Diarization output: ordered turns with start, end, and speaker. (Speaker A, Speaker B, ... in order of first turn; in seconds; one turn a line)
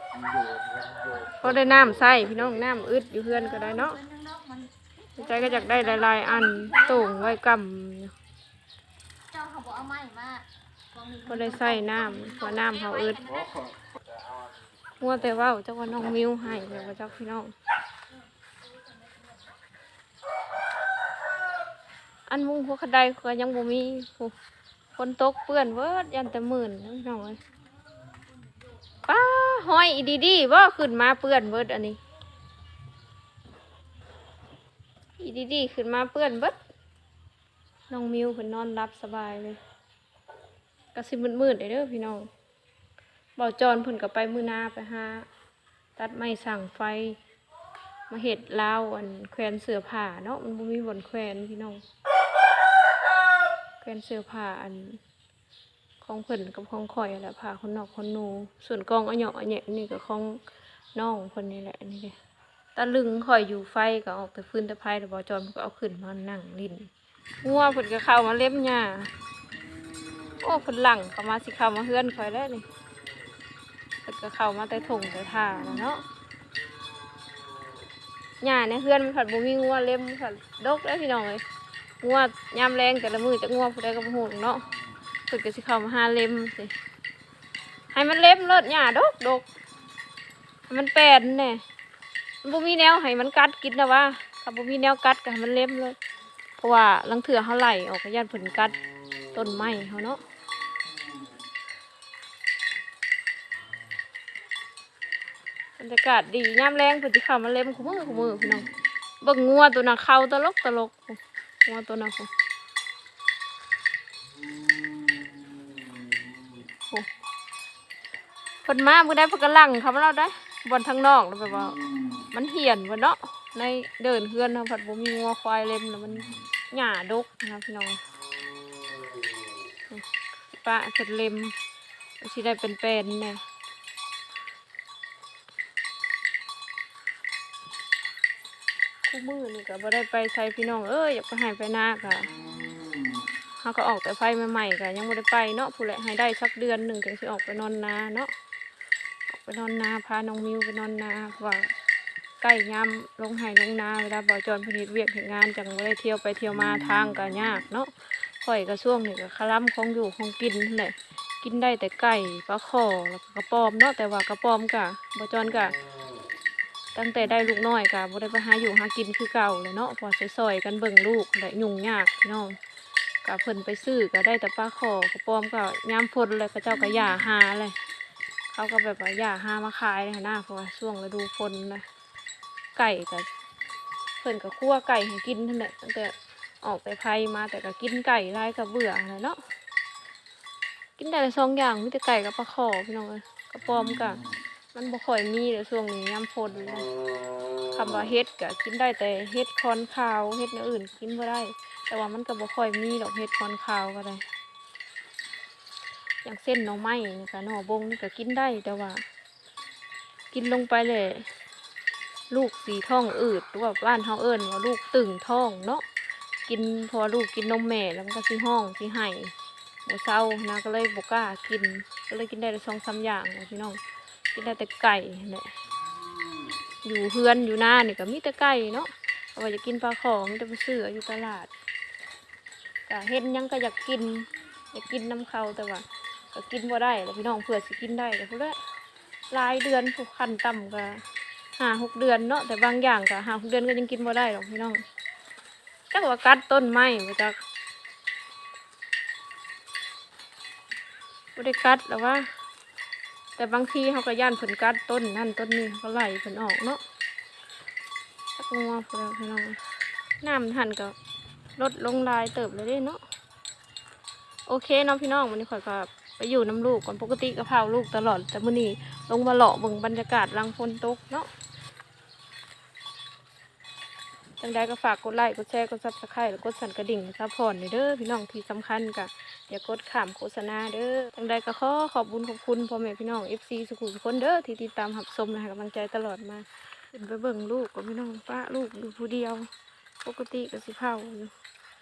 Speaker A: 0.2-1.4
Speaker B: 1.4-4.0
Speaker C: 3.1-7.4
Speaker B: 5.2-8.1
Speaker C: 9.3-13.7
Speaker B: 11.3-13.2
Speaker A: 13.4-14.2
Speaker B: 15.0-17.5
Speaker C: 18.1-19.6
Speaker B: 22.3-24.3
Speaker B: 25.0-27.4
Speaker C: 28.0-29.0
Speaker B: 29.0-32.0
Speaker B: 35.2-36.6
Speaker B: 37.9-39.6
Speaker B: 40.9-42.3
Speaker B: 43.4-45.2
Speaker B: 46.0-47.2
Speaker B: 48.1-51.8
Speaker B: 53.8-55.0
Speaker B: 56.0-60.4
Speaker B: 60.9-62.1
Speaker B: 62.7-66.9
Speaker B: 67.4-69.1
Speaker B: 70.4-72.7
Speaker B: 74.0-76.0
Speaker B: 78.4-81.4
Speaker B: 82.0-84.7
Speaker B: 85.3-86.7
Speaker B: 87.9-89.5
Speaker B: 90.7-91.6
Speaker B: 92.4-96.0
Speaker B: 96.6-98.8
Speaker B: 99.3-100.2
Speaker B: 105.8-108.7
Speaker B: 109.2-112.3
Speaker A: 114.8-115.3
Speaker B: 118.6-121.8
Speaker B: 122.3-128.0
Speaker B: 129.9-131.5
Speaker B: 132.2-133.4
Speaker B: 139.1-142.3
Speaker B: 143.6-148.3
Speaker B: 149.3-151.7
Speaker B: 152.4-165.8
Speaker B: 166.9-172.6
Speaker B: 173.2-177.7
Speaker B: 178.5-181.8
Speaker B: 182.8-183.3
Speaker B: 184.2-189.4
Speaker B: 191.0-196.9
Speaker B: 197.7-204.2
Speaker B: 206.2-209.0
Speaker B: 210.3-211.3
Speaker B: 212.3-215.8
Speaker B: 216.5-219.3
Speaker B: 219.8-223.8
Speaker B: 224.3-225.5
Speaker B: 226.8-231.5
Speaker B: 232.9-238.6
Speaker B: 239.3-241.0
Speaker B: 241.6-244.8
Speaker B: 245.9-247.3
Speaker B: 251.3-252.3
Speaker B: 253.4-256.8
Speaker B: 258.4-259.6
Speaker B: 260.2-260.9
Speaker B: 261.6-263.0
Speaker B: 264.5-271.3
Speaker B: 274.4-289.5
Speaker B: 290.0-291.3